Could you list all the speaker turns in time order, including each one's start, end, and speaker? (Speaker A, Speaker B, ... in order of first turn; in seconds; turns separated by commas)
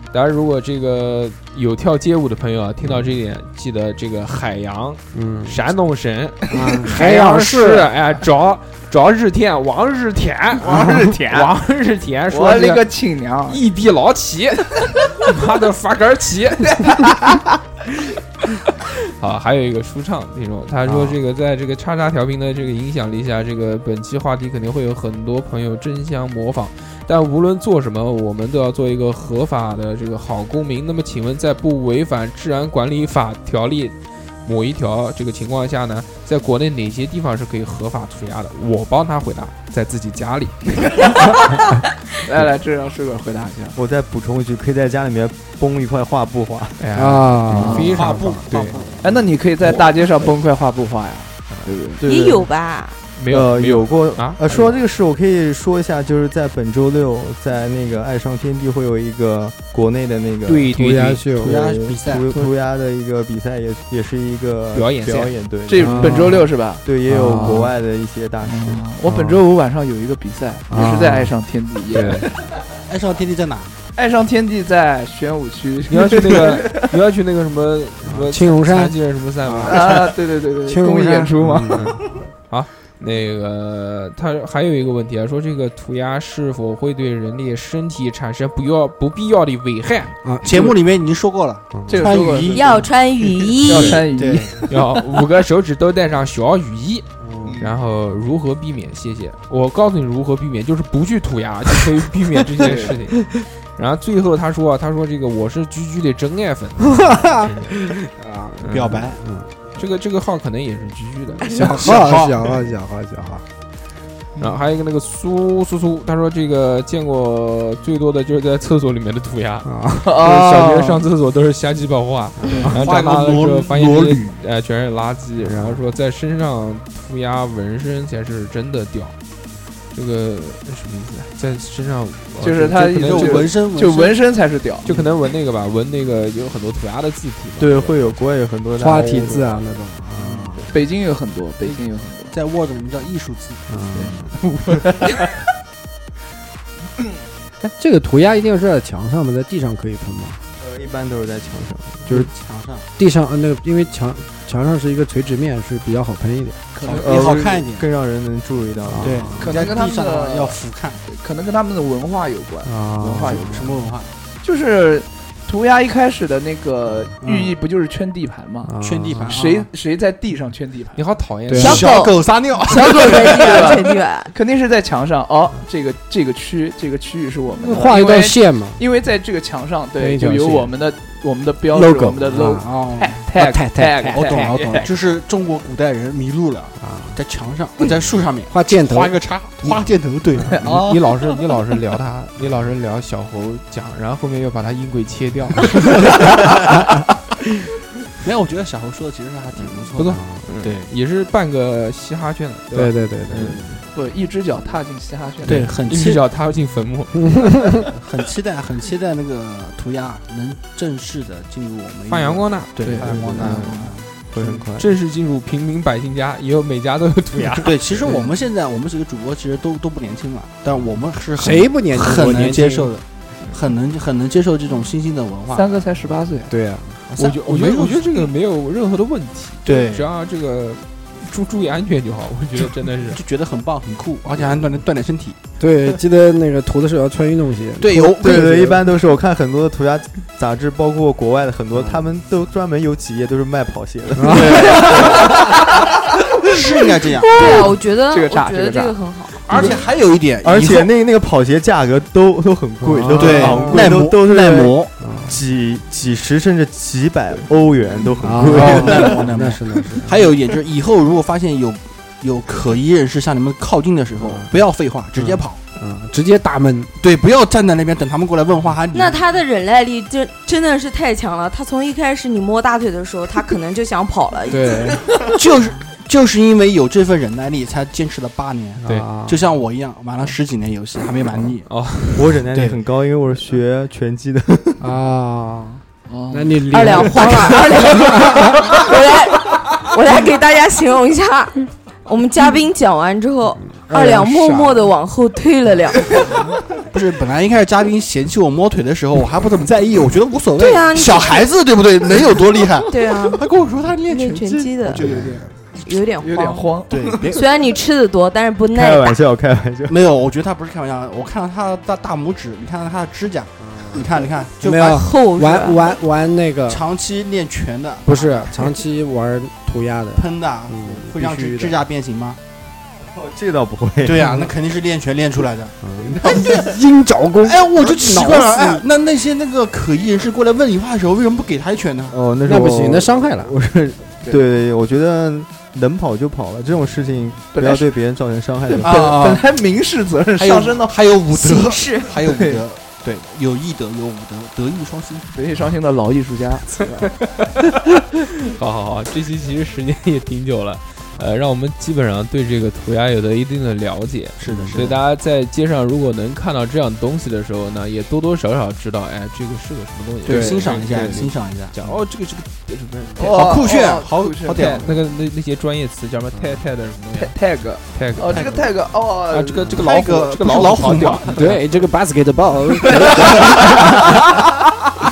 Speaker A: 0.1-12.8, Speaker B: 5.1-5.6, Speaker B: 6.5-7.9, Speaker C: 10.7-11.5, Speaker C: 12.3-13.6, Speaker A: 13.5-17.4, Speaker C: 16.7-17.0, Speaker A: 18.7-41.0, Speaker B: 20.9-21.2, Speaker C: 42.2-43.8, Speaker D: 43.8-46.8, Speaker A: 46.8-48.9, Speaker B: 47.0-48.4, Speaker C: 47.5-48.0, Speaker E: 47.6-49.3, Speaker C: 49.0-52.0, Speaker A: 51.5-51.8, Speaker F: 52.0-53.0, Speaker D: 52.0-52.4, Speaker A: 53.1-54.7, Speaker D: 53.3-60.7, Speaker A: 60.5-61.5, Speaker B: 60.8-61.5, Speaker E: 61.4-62.3, Speaker D: 61.4-68.8, Speaker A: 64.7-65.3, Speaker C: 65.7-66.8, Speaker B: 65.8-66.5, Speaker B: 67.1-67.7, Speaker C: 68.5-72.5, Speaker B: 69.1-69.3, Speaker B: 70.7-71.3, Speaker B: 71.9-72.3, Speaker E: 72.9-73.8, Speaker C: 74.0-76.9, Speaker A: 75.9-80.1, Speaker B: 78.0-80.0, Speaker C: 79.7-82.2, Speaker B: 80.7-82.0, Speaker A: 81.7-90.3, Speaker B: 90.2-90.7, Speaker E: 90.4-92.9, Speaker B: 91.7-92.1, Speaker C: 91.9-92.9, Speaker F: 92.5-94.0, Speaker C: 93.6-94.7, Speaker E: 93.7-94.7, Speaker A: 94.7-97.1, Speaker B: 97.2-97.6, Speaker A: 97.6-107.8, Speaker C: 102.6-103.0, Speaker B: 106.8-109.5, Speaker A: 108.6-109.1, Speaker E: 108.7-109.2, Speaker A: 109.8-111.6, Speaker B: 111.5-113.5, Speaker E: 111.5-112.5, Speaker A: 114.4-129.2, Speaker B: 119.7-120.0, Speaker C: 120.0-121.0, Speaker B: 122.4-122.7, Speaker C: 122.5-122.7, Speaker E: 122.7-124.4, Speaker B: 125.4-125.8, Speaker A: 129.9-133.5, Speaker C: 132.4-134.8, Speaker E: 132.9-134.2, Speaker A: 134.8-138.2, Speaker D: 137.6-139.5, Speaker B: 138.8-140.7, Speaker E: 140.1-140.8, Speaker C: 140.7-142.4, Speaker E: 141.6-143.7, Speaker B: 143.7-144.3, Speaker C: 143.9-145.4, Speaker B: 147.6-150.4, Speaker D: 150.6-152.2, Speaker E: 152.1-152.9, Speaker B: 153.0-156.6, Speaker E: 156.7-157.9, Speaker C: 156.8-157.1, Speaker D: 156.9-159.4, Speaker B: 158.9-159.4, Speaker E: 159.0-161.0, Speaker C: 159.4-163.5, Speaker B: 162.7-163.8, Speaker E: 163.0-164.1, Speaker C: 164.4-168.7, Speaker E: 167.2-167.5, Speaker B: 168.7-169.4, Speaker E: 168.8-169.7, Speaker C: 169.2-171.0, Speaker A: 170.9-171.9, Speaker B: 171.5-171.8, Speaker E: 171.6-173.9, Speaker F: 171.6-174.3, Speaker C: 172.8-184.9, Speaker B: 177.6-178.8, Speaker B: 180.0-180.7, Speaker B: 181.7-182.7, Speaker E: 182.5-183.2, Speaker B: 183.3-184.9, Speaker E: 184.1-191.0, Speaker B: 186.8-187.2, Speaker B: 188.5-189.2, Speaker C: 190.6-191.1, Speaker A: 190.6-196.6, Speaker E: 198.2-200.9, Speaker A: 199.7-203.8, Speaker B: 200.1-200.4, Speaker B: 202.7-203.6, Speaker C: 203.9-205.7, Speaker E: 205.4-206.2, Speaker A: 205.5-207.8, Speaker B: 207.2-207.8, Speaker E: 207.9-214.1, Speaker A: 212.1-213.9, Speaker B: 213.0-213.3, Speaker C: 213.5-213.8, Speaker D: 214.3-214.9, Speaker A: 214.8-218.3, Speaker E: 217.6-225.8, Speaker B: 221.4-222.9, Speaker C: 225.5-226.5, Speaker B: 226.5-227.0, Speaker A: 227.1-233.2, Speaker E: 227.2-228.3, Speaker E: 229.7-230.1, Speaker E: 233.1-235.4, Speaker B: 235.6-238.8, Speaker E: 237.8-238.5, Speaker D: 238.2-245.3, Speaker B: 241.7-242.0, Speaker B: 244.2-244.8, Speaker E: 244.3-245.4, Speaker C: 244.7-245.9, Speaker E: 246.4-247.4, Speaker C: 247.2-249.0, Speaker F: 247.3-249.6, Speaker A: 249.5-249.9, Speaker E: 249.5-250.9, Speaker D: 250.4-259.2, Speaker B: 252.8-253.9, Speaker E: 253.2-254.9, Speaker B: 255.0-255.4, Speaker B: 258.2-260.2, Speaker E: 258.4-265.6, Speaker B: 264.2-264.6, Speaker B: 265.1-266.9, Speaker E: 267.0-269.2, Speaker F: 268.9-275.2, Speaker B: 274.5-275.0, Speaker E: 275.1-281.7, Speaker B: 278.8-279.4, Speaker A: 278.8-279.2, Speaker A: 281.7-282.4, Speaker D: 282.1-284.8, Speaker E: 282.5-282.8, Speaker B: 284.8-288.5, Speaker C: 286.1-286.6, Speaker F: 286.7-296.2, Speaker B: 293.8-294.9, Speaker E: 296.8-305.6, Speaker F: 300.6-301.5, Speaker F: 302.9-303.4, Speaker F: 304.1-305.3, Speaker F: 305.8-309.2, Speaker C: 306.2-307.4, Speaker E: 306.9-307.4, Speaker D: 308.7-310.0, Speaker E: 309.9-315.0, Speaker B: 313.7-314.0, Speaker B: 314.6-316.8, Speaker F: 314.9-316.0, Speaker E: 316.7-318.7, Speaker B: 318.1-321.8, Speaker E: 320.1-322.4, Speaker D: 323.0-324.4, Speaker E: 324.0-326.7, Speaker B: 324.2-324.5, Speaker B: 325.8-328.8, Speaker E: 327.4-332.2, Speaker D: 332.1-339.2, Speaker B: 332.5-333.5, Speaker C: 337.5-337.9, Speaker C: 338.8-341.0, Speaker E: 338.8-339.5, Speaker E: 340.4-345.3, Speaker F: 341.3-342.2, Speaker C: 342.2-342.6, Speaker C: 345.3-347.1, Speaker A: 347.1-347.6, Speaker A: 348.4-363.3, Speaker E: 354.4-355.0, Speaker B: 354.5-354.8, Speaker E: 360.2-361.9, Speaker C: 360.3-360.6, Speaker C: 363.2-364.9, Speaker E: 363.2-364.9, Speaker A: 364.5-367.4, Speaker B: 366.3-366.6, Speaker C: 367.2-369.8, Speaker A: 367.9-368.6, Speaker E: 368.3-368.7, Speaker A: 369.3-371.6, Speaker E: 369.7-371.5, Speaker B: 371.4-374.5, Speaker C: 373.0-373.5